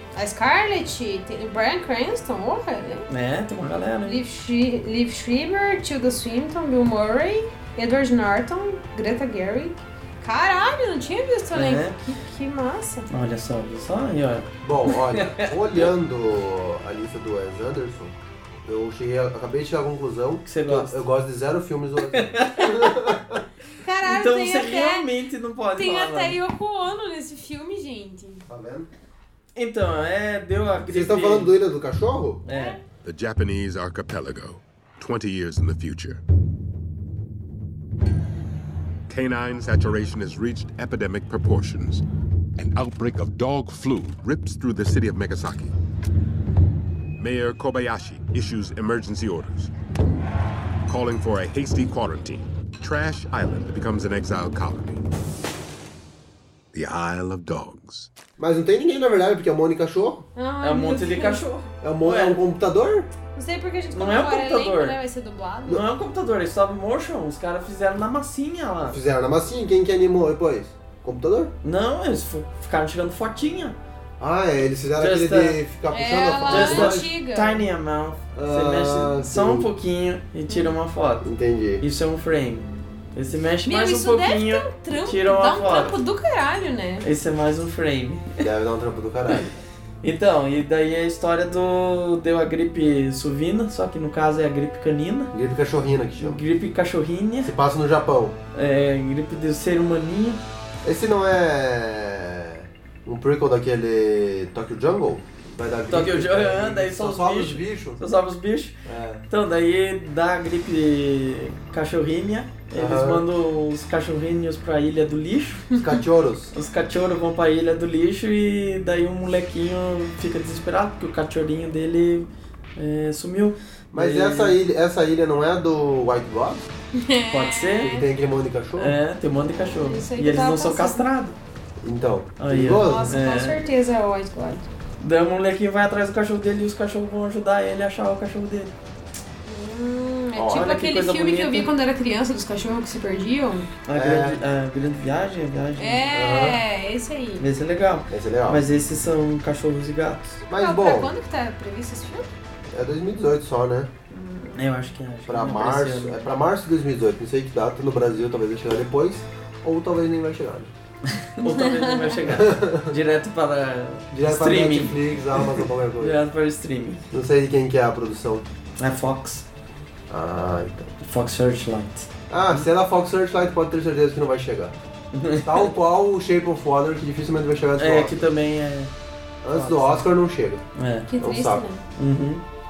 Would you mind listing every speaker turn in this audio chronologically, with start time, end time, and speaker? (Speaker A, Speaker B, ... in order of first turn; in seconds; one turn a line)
Speaker A: 0.1-3.1
Speaker B: 3.1-4.2
Speaker A: 4.0-13.1
Speaker B: 11.5-12.0
Speaker B: 13.1-15.8
Speaker C: 14.6-23.4
Speaker B: 20.4-20.9
Speaker B: 22.1-22.9
Speaker A: 23.8-25.1
Speaker B: 24.0-26.4
Speaker A: 25.8-28.4
Speaker C: 28.5-28.9
Speaker B: 29.6-31.5
Speaker C: 30.9-32.4
Speaker B: 32.5-32.8
Speaker A: 32.5-32.8
Speaker D: 33.0-36.2
Speaker D: 39.1-42.0
Speaker D: 42.6-45.7
Speaker D: 47.2-49.7
Speaker D: 50.9-55.0
Speaker D: 56.7-58.1
Speaker C: 58.4-60.2
Speaker A: 60.3-61.6
Speaker B: 60.6-62.4
Speaker C: 61.8-63.1
Speaker A: 63.3-65.8
Speaker B: 63.9-65.0
Speaker B: 65.7-69.0
Speaker C: 68.9-71.5
Speaker B: 71.6-73.8
Speaker C: 74.2-77.1
Speaker B: 75.0-75.6
Speaker A: 75.9-77.7
Speaker B: 76.5-81.3
Speaker C: 78.3-79.7
Speaker C: 81.2-81.8
Speaker B: 81.8-85.9
Speaker A: 83.6-87.0
Speaker B: 87.0-88.4
Speaker C: 88.4-89.5
Speaker B: 90.0-95.3
Speaker C: 95.3-96.4
Speaker B: 96.2-97.5
Speaker C: 97.4-98.3
Speaker B: 98.5-100.4
Speaker C: 100.8-108.0
Speaker B: 105.9-108.8
Speaker C: 108.8-109.2
Speaker B: 109.3-115.7
Speaker C: 112.7-113.2
Speaker C: 115.8-116.5
Speaker B: 116.5-124.5
Speaker C: 123.9-126.6
Speaker A: 126.9-128.1
Speaker B: 127.3-127.9
Speaker C: 127.8-129.0
Speaker B: 128.8-131.3
Speaker A: 129.5-131.1
Speaker C: 131.8-133.2
Speaker B: 132.4-133.6
Speaker A: 132.7-134.7
Speaker B: 135.0-138.7
Speaker A: 139.4-143.7
Speaker C: 140.3-140.7
Speaker B: 140.5-141.7
Speaker B: 143.8-146.0
Speaker C: 143.9-144.4
Speaker A: 145.8-147.4
Speaker C: 146.1-146.6
Speaker B: 147.4-150.4
Speaker C: 148.1-148.6
Speaker C: 150.5-151.1
Speaker A: 150.6-152.3
Speaker C: 152.7-153.9
Speaker A: 154.1-154.6
Speaker B: 154.5-156.2
Speaker C: 155.3-160.7
Speaker B: 161.1-167.0
Speaker A: 161.4-162.2
Speaker C: 162.2-162.9
Speaker C: 164.1-166.2
Speaker C: 167.1-168.5
Speaker B: 168.8-169.4
Speaker C: 170.1-170.9
Speaker B: 171.0-172.7
Speaker C: 172.3-174.8
Speaker B: 175.1-175.7
Speaker C: 175.4-178.3
Speaker B: 177.8-178.9
Speaker C: 179.4-180.6
Speaker B: 179.5-180.1
Speaker B: 180.8-181.1
Speaker A: 181.1-181.8
Speaker C: 181.2-181.6
Speaker B: 182.0-182.4